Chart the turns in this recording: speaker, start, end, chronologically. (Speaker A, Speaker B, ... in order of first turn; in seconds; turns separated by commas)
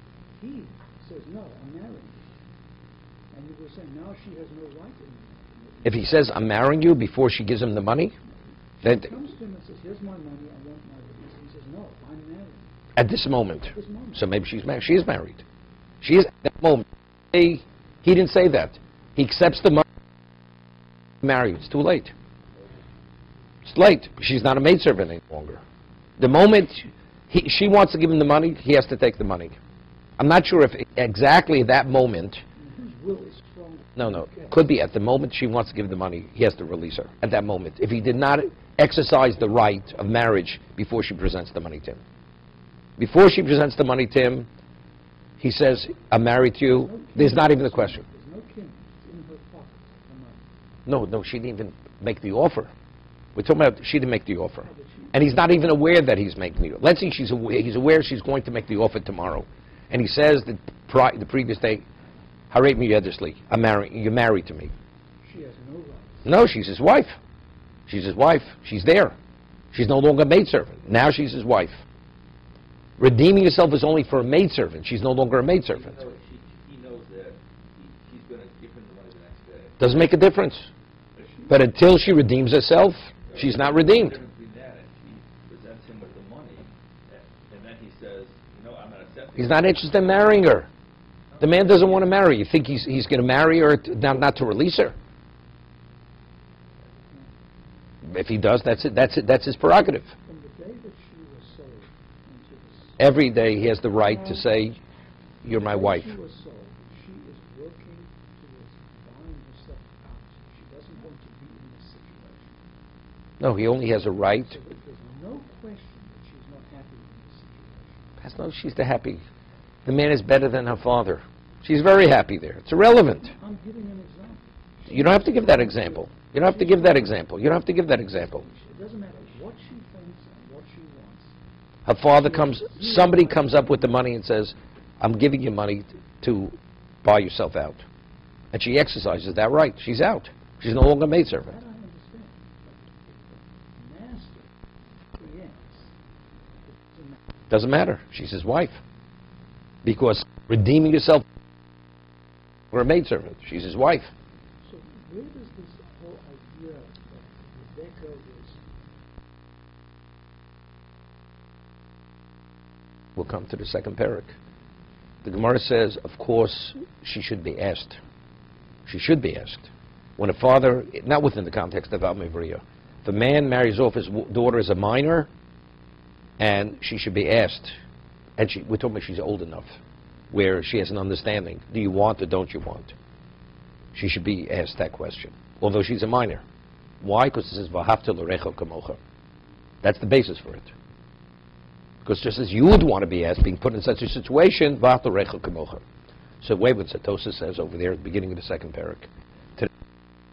Speaker A: 0.3-2.2, Speaker A: 3.3-6.3, Speaker B: 5.8-8.1, Speaker A: 8.8-12.7, Speaker B: 8.8-9.1, Speaker B: 12.9-15.4, Speaker A: 13.7-14.3, Speaker B: 16.0-19.8, Speaker B: 21.2-22.1, Speaker B: 23.6-25.6, Speaker B: 26.2-29.5, Speaker B: 30.2-32.4, Speaker A: 32.5-34.6, Speaker B: 34.0-42.0, Speaker B: 43.0-44.5, Speaker B: 45.4-48.0, Speaker A: 46.7-50.5, Speaker B: 50.9-52.7, Speaker B: 53.3-61.8, Speaker A: 54.6-55.3, Speaker B: 62.5-64.7, Speaker A: 65.2-66.3, Speaker B: 66.2-67.2, Speaker B: 67.9-69.1, Speaker B: 69.7-71.8, Speaker B: 73.0-75.9, Speaker C: 75.7-79.8, Speaker B: 79.8-80.7, Speaker C: 81.2-81.7, Speaker B: 81.5-84.2, Speaker C: 83.3-90.0, Speaker B: 89.3-90.7, Speaker C: 91.3-92.2, Speaker B: 91.4-94.9, Speaker B: 98.1-100.1, Speaker A: 100.2-103.0, Speaker B: 103.0-104.8, Speaker B: 105.4-106.1, Speaker A: 105.5-112.6, Speaker B: 113.4-114.5, Speaker A: 114.3-118.1, Speaker B: 118.2-119.2, Speaker B: 119.8-123.3, Speaker A: 123.3-127.1, Speaker B: 124.9-128.4, Speaker A: 128.1-131.3, Speaker B: 131.8-137.8, Speaker A: 132.1-134.0, Speaker B: 138.5-141.5, Speaker A: 141.3-144.5, Speaker A: 145.2-145.9, Speaker A: 146.6-147.2, Speaker B: 147.5-148.8, Speaker B: 149.8-151.2, Speaker B: 152.7-154.1, Speaker A: 154.6-158.6, Speaker B: 163.2-164.3, Speaker B: 165.2-168.0, Speaker B: 168.8-175.3, Speaker B: 176.4-177.7, Speaker B: 178.4-179.7, Speaker B: 180.3-182.9, Speaker B: 183.9-186.4, Speaker B: 187.0-189.0, Speaker B: 189.8-190.7, Speaker B: 192.0-195.8, Speaker B: 196.4-199.7